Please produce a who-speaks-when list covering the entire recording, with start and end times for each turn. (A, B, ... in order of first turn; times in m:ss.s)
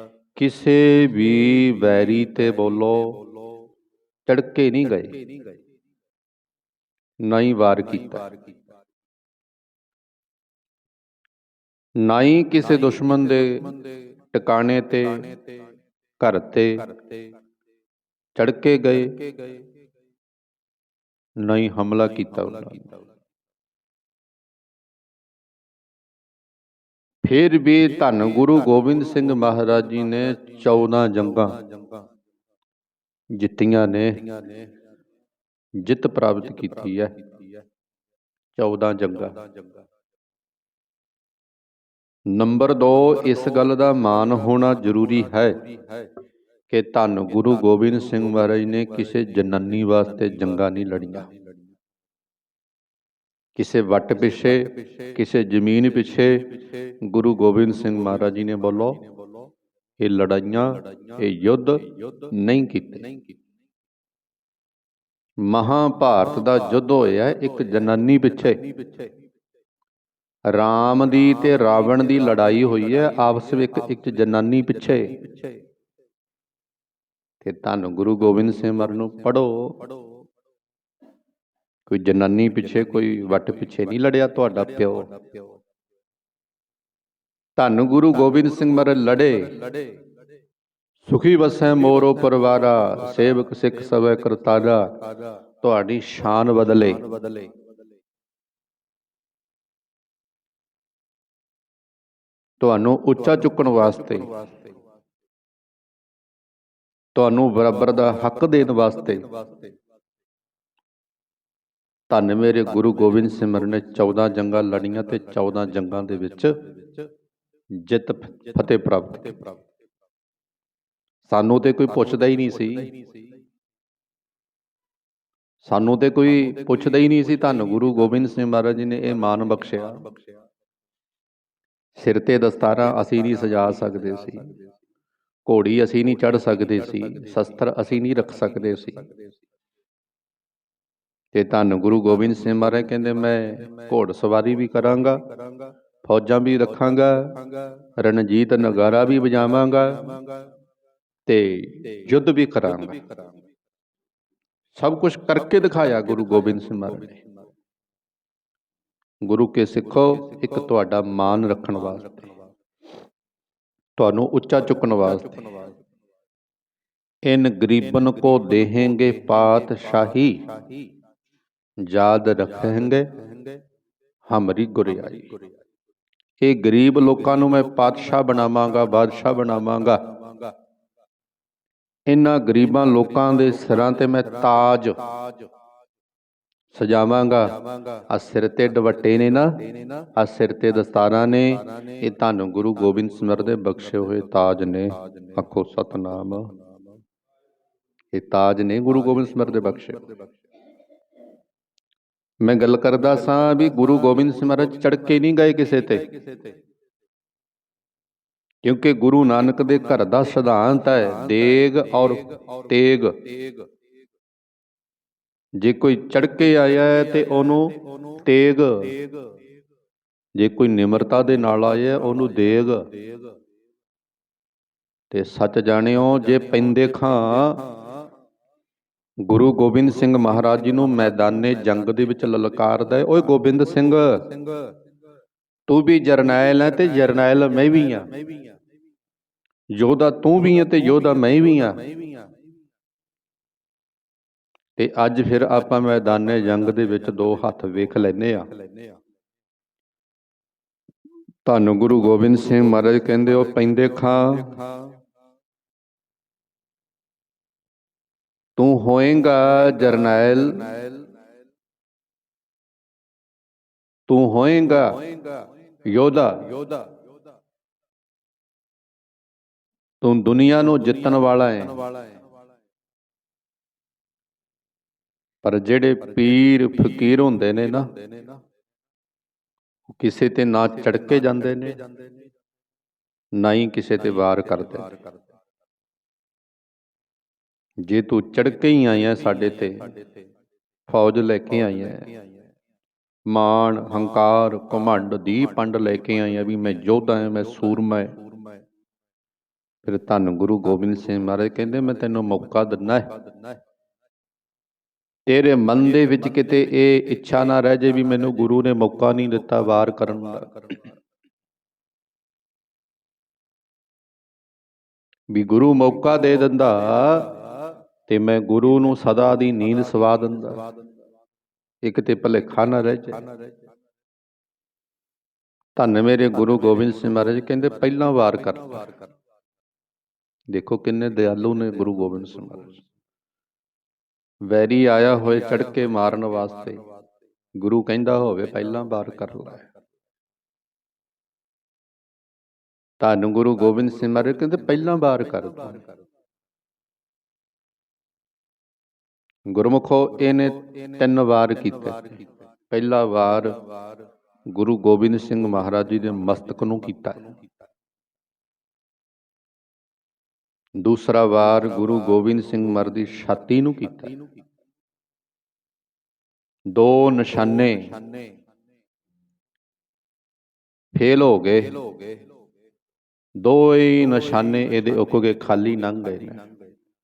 0:00.4-0:03.2 A
0:04.3-0:05.2 A
0:07.2-0:08.3 A
0:12.0-0:15.4 A
0:16.2-0:16.9 A
0:18.4-0:19.3 A
0:21.4-0:23.0 A
0:27.2-0:31.7 A
0:33.3-0:34.4 A
0:35.8-0:37.2 A
0:38.6-0:39.4 A
0:42.3-0:45.7 A
0:46.7-0:51.3 A
0:53.6-0:59.0 A
1:00.0-1:03.1 A
1:05.4-1:08.7 A
1:10.5-1:15.4 A
1:17.4-1:19.9 A
1:21.9-1:25.1 A
1:27.6-1:29.8 A
1:31.0-1:35.0 A
1:35.6-1:37.2 A
1:42.6-1:44.4 A
1:47.2-1:49.4 A
1:52.1-1:56.6 A
1:57.8-1:59.6 A
2:01.3-2:03.0 A
2:05.6-2:10.1 A
2:12.0-2:14.6 A
2:15.4-2:19.1 A
2:21.3-2:25.3 A
2:26.0-2:27.4 A
2:28.0-2:30.2 A
2:31.3-2:33.0 A
2:34.8-2:37.2 A
2:39.2-2:42.3 A
2:44.0-2:45.7 A
2:47.2-2:50.5 A
2:51.8-2:53.2 A
2:54.3-2:55.4 A
2:56.4-3:00.1 A
3:02.1-3:05.0 A
3:06.7-3:16.5 A
3:18.1-3:20.2 A
3:22.4-3:26.4 A
3:28.6-3:33.4 A
3:35.6-3:39.0 A
3:40.4-3:42.9 A
3:45.1-3:47.7 A
3:49.2-3:54.4 A
3:55.7-3:58.2 A
3:59.7-4:01.9 A
4:04.8-4:08.5 A
4:11.4-4:14.7 A
4:18.6-4:20.9 A
4:24.1-4:25.1 A
4:25.8-4:26.8 A
4:30.0-4:31.9 A
4:35.4-4:38.0 A
4:39.9-4:41.8 A
4:43.4-4:45.0 A
4:47.8-4:49.9 A
4:50.9-4:52.2 A
4:53.3-4:58.2 A
4:59.8-5:03.2 A
5:05.3-5:10.8 A
5:15.3-5:17.4 A
5:18.1-5:20.6 A
5:21.8-5:23.3 A
5:25.8-5:29.0 A
5:30.5-5:32.8 A
5:34.4-5:36.8 A
5:37.6-5:39.7 A
5:43.0-5:45.9 A
5:49.5-5:53.6 A
5:54.5-5:57.4 A
6:00.8-6:04.2 A
6:06.7-6:08.0 A
6:10.9-6:11.8 A
6:13.4-6:16.5 A